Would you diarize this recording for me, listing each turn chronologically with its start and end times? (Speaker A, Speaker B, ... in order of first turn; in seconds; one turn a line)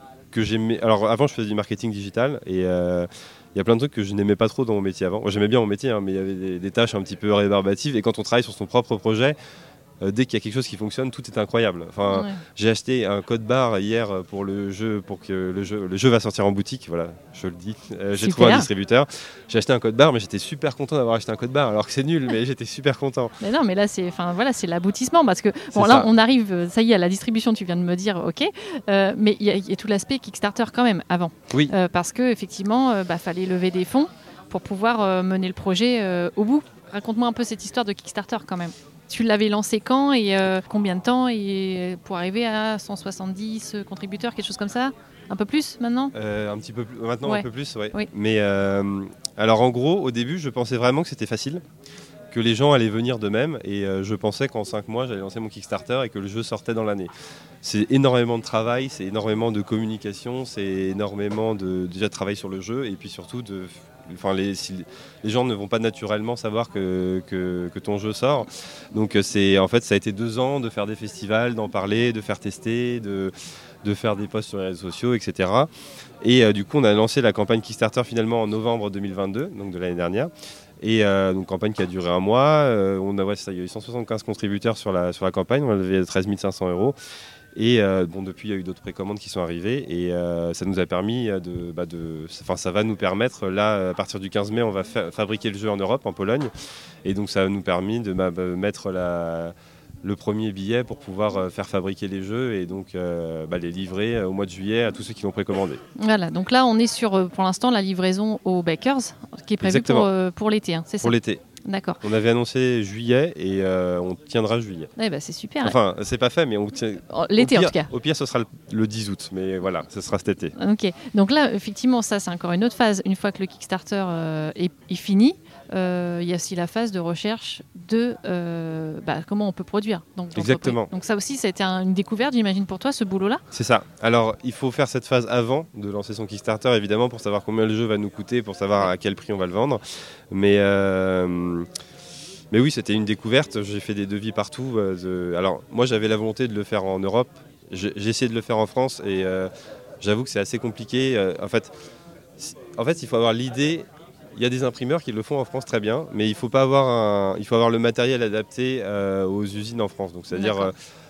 Speaker A: 0.3-9.4
Speaker A: 10.0-23.3
Speaker B: 12.1-12.4
Speaker B: 18.2-18.7
Speaker B: 23.4-46.1
Speaker A: 25.7-26.1
Speaker A: 46.1-51.6
Speaker B: 47.2-48.1
Speaker A: 52.3-57.1
Speaker A: 57.6-73.3
Speaker A: 73.8-75.7
Speaker A: 76.2-87.0
Speaker A: 87.5-96.5
Speaker A: 97.0-105.8
Speaker B: 106.0-112.0
Speaker A: 109.6-110.1
Speaker A: 111.0-111.4
Speaker A: 112.0-114.9
Speaker B: 115.0-115.8
Speaker A: 115.6-120.5
Speaker B: 117.1-117.9
Speaker B: 120.6-133.4
Speaker A: 130.4-130.9
Speaker A: 133.5-141.7
Speaker A: 142.5-149.5
Speaker A: 150.0-151.7
Speaker A: 152.4-160.7
Speaker B: 160.3-160.7